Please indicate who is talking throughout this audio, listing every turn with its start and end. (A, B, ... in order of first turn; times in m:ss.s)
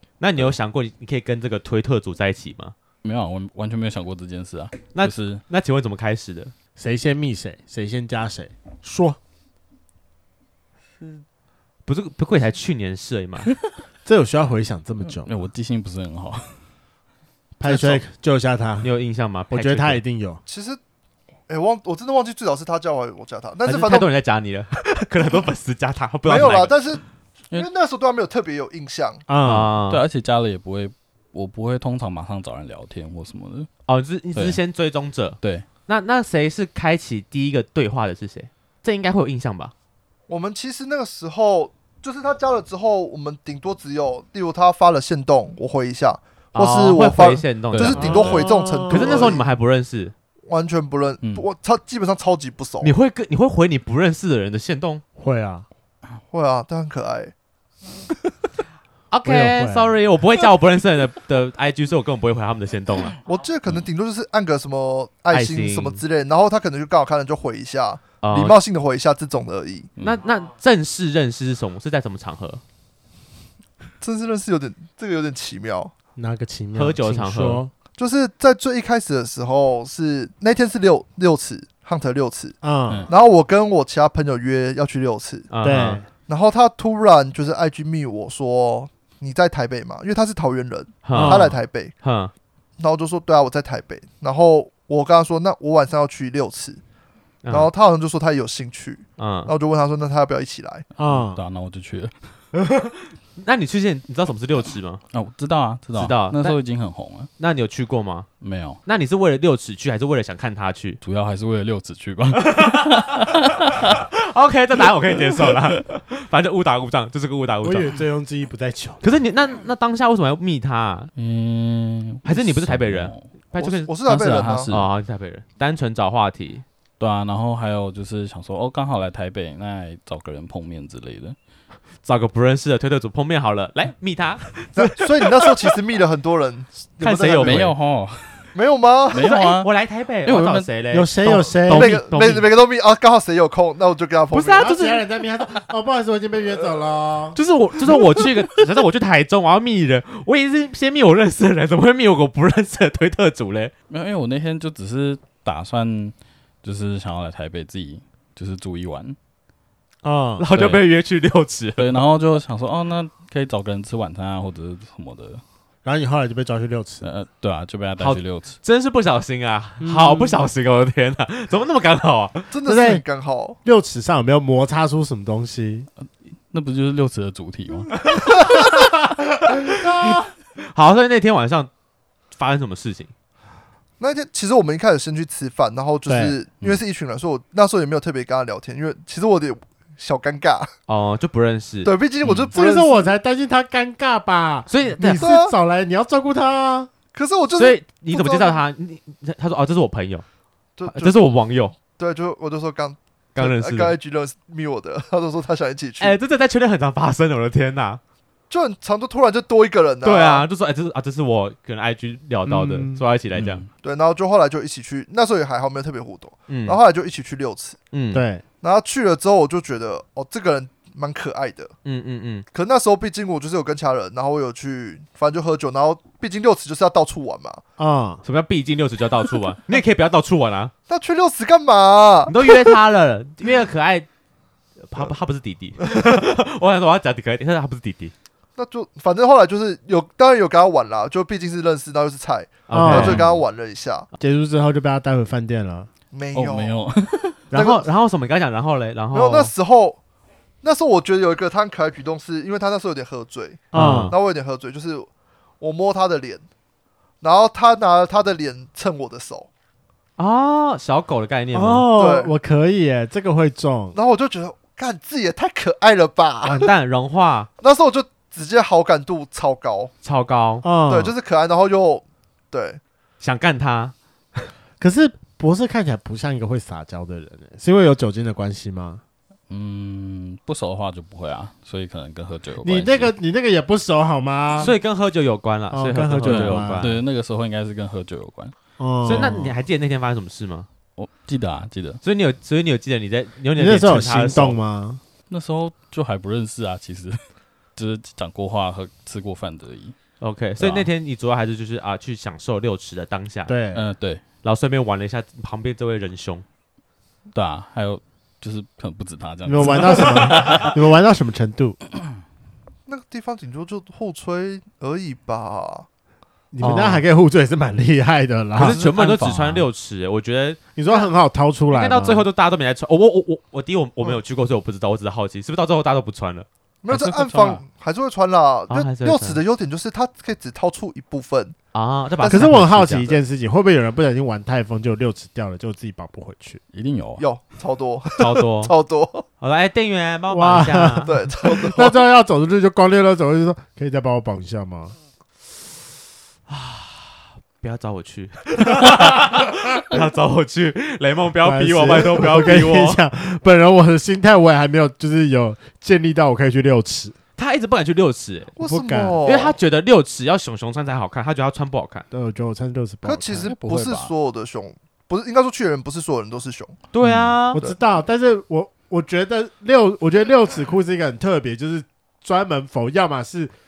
0:00.2-0:02.8 A
0:03.0-0:05.4 B
0:04.9-0:06.5 A
0:06.8-0:09.2 C
0:11.9-0:13.5 A
0:14.0-0:15.3 C
0:15.1-0:16.6 B
0:17.6-0:18.9 C
0:17.7-0:18.0 A
0:18.8-0:20.0 A
0:19.5-0:20.4 C
0:20.5-0:20.8 D
0:21.5-0:24.1 D
0:23.6-0:26.8 A
0:26.2-0:29.2 D
0:29.3-0:29.7 C
0:29.4-0:30.0 A
0:29.9-0:33.7 B
0:33.9-0:39.7 A
0:34.4-0:34.6 B
0:35.4-0:35.7 B
0:40.3-0:49.4 D
0:46.5-0:50.1 A
0:47.7-0:48.5 B
0:48.0-0:49.4 C
0:50.5-0:52.9 D
0:52.8-0:55.0 A
0:55.2-0:55.7 C
0:56.3-0:57.3 D
0:59.1-1:03.2 A
0:59.2-1:00.0 C
1:03.2-1:09.9 D
1:05.3-1:06.0 A
1:08.2-1:08.6 A
1:10.0-1:12.6 A
1:14.0-1:15.9 D
1:16.2-1:17.7 C
1:16.8-1:17.6 A
1:18.0-1:25.5 D
1:22.6-1:23.1 C
1:25.5-1:26.0 A
1:25.6-1:26.1 C
1:26.3-1:31.9 D
1:31.0-1:32.3 A
1:31.1-1:31.6 C
1:32.8-1:36.8 D
1:37.4-1:37.7 A
1:37.5-1:40.9 D
1:39.2-1:39.5 A
1:41.0-1:42.2 B
1:41.0-1:41.4 C
1:43.4-1:45.0 A
1:45.1-1:47.3 B
1:45.9-1:46.6 A
1:47.4-1:48.3 A
1:48.4-1:48.8 B
1:48.8-1:51.0 A
1:51.0-1:54.0 B
1:52.4-1:58.0 A
1:57.6-1:59.0 C
1:59.0-2:01.1 A
2:01.2-2:03.3 B
2:02.2-2:03.9 A
2:03.6-2:04.7 D
2:04.0-2:04.9 B
2:04.7-2:06.6 A
2:07.0-2:11.4 B
2:12.0-2:15.5 A
2:14.8-2:17.7 D
2:17.0-2:17.7 A
2:17.4-2:18.5 B
2:18.6-2:19.4 D
2:19.1-2:19.7 B
2:19.2-2:22.5 A
2:20.2-2:20.7 B
2:20.9-2:22.0 C
2:21.7-2:24.7 D
2:24.3-2:25.1 A
2:24.6-2:27.4 C
2:27.4-2:33.7 A
2:33.9-2:39.2 B
2:40.0-2:40.4 C
2:40.4-2:41.9 A
2:40.5-2:40.8 B
2:41.8-2:45.4 B
2:45.8-2:47.0 C
2:47.0-2:48.6 B
2:48.0-2:52.5 A
2:49.8-2:50.4 C
2:52.5-2:53.6 D
2:52.6-2:53.0 C
2:53.6-2:55.9 C
2:56.0-2:58.1 B
2:58.1-2:58.8 A
2:59.6-3:01.7 A
2:59.8-3:00.2 C
3:02.3-3:03.1 A
3:04.0-3:10.7 D
3:06.1-3:06.4 C
3:10.9-3:11.9 A
3:11.8-3:13.1 D
3:12.5-3:16.9 C
3:14.7-3:15.2 A
3:15.1-3:15.5 D
3:17.1-3:18.6 D
3:17.6-3:20.2 A
3:20.8-3:21.2 D
3:20.9-3:21.8 A
3:21.9-3:26.2 D
3:23.4-3:24.0 A
3:26.0-3:28.0 A
3:28.5-3:30.5 D
3:30.0-3:33.6 A
3:32.5-3:33.0 C
3:33.3-3:33.7 B
3:33.8-3:37.8 D
3:36.5-3:36.8 A
3:37.9-3:38.2 A
3:38.1-3:38.4 C
3:38.6-3:41.7 D
3:41.8-3:42.4 A
3:42.5-3:47.6 D
3:47.8-3:48.2 C
3:48.2-3:50.7 A
3:50.9-3:52.6 D
3:52.3-3:54.1 A
3:54.8-3:58.1 A
3:55.9-3:56.1 D
3:58.6-4:04.1 D
4:02.7-4:03.3 A
4:02.7-4:03.3 C
4:04.2-4:05.9 C
4:06.1-4:06.8 D
4:06.3-4:07.4 B
4:07.5-4:07.9 D
4:07.5-4:09.5 A
4:09.1-4:10.0 D
4:10.6-4:16.4 D
4:13.7-4:14.1 C
4:13.7-4:14.2 A
4:17.2-4:19.5 D
4:20.2-4:21.9 A
4:21.5-4:24.0 C
4:22.0-4:22.3 D
4:23.9-4:26.7 D
4:26.5-4:27.5 A
4:27.6-4:29.9 D
4:30.0-4:30.6 A
4:30.6-4:31.2 C
4:30.9-4:32.8 D
4:33.2-4:34.5 A
4:34.8-4:39.0 C
4:39.5-4:43.1 B
4:42.6-4:44.7 C
4:44.6-4:47.0 A
4:45.7-4:46.9 C
4:46.2-4:48.5 B
4:48.8-4:49.5 C
4:49.0-4:50.7 A
4:49.1-4:49.4 B
4:51.0-4:52.0 B
4:52.0-4:54.6 A
4:53.6-4:55.0 C
4:55.3-5:00.0 B
5:00.2-5:03.5 A
5:00.6-5:00.9 B
5:03.5-5:03.8 C
5:03.7-5:04.2 B
5:04.4-5:06.4 A
5:07.3-5:10.8 B
5:09.5-5:11.8 C
5:12.9-5:15.9 D
5:16.5-5:18.8 C
5:16.6-5:17.0 A
5:18.6-5:20.8 A
5:18.6-5:19.6 B
5:20.8-5:22.3 C
5:21.7-5:26.5 A
5:26.8-5:31.6 D
5:26.9-5:27.6 B
5:28.7-5:29.4 A
5:31.7-5:33.2 A
5:32.2-5:32.6 D
5:32.3-5:36.6 C
5:36.7-5:37.3 B
5:37.2-5:39.3 D
5:38.2-5:38.7 A
5:39.4-5:41.1 A
5:40.3-5:44.9 C
5:41.0-5:41.9 D
5:46.5-5:53.0 A
5:51.4-5:57.2 C
5:57.4-5:58.5 A
5:58.6-5:59.6 D
5:58.6-5:59.2 C
5:59.2-6:02.0 A
6:02.1-6:04.0 C
6:03.0-6:06.8 D
6:03.4-6:04.1 B
6:06.9-6:07.6 A
6:07.0-6:07.3 B
6:07.5-6:13.5 C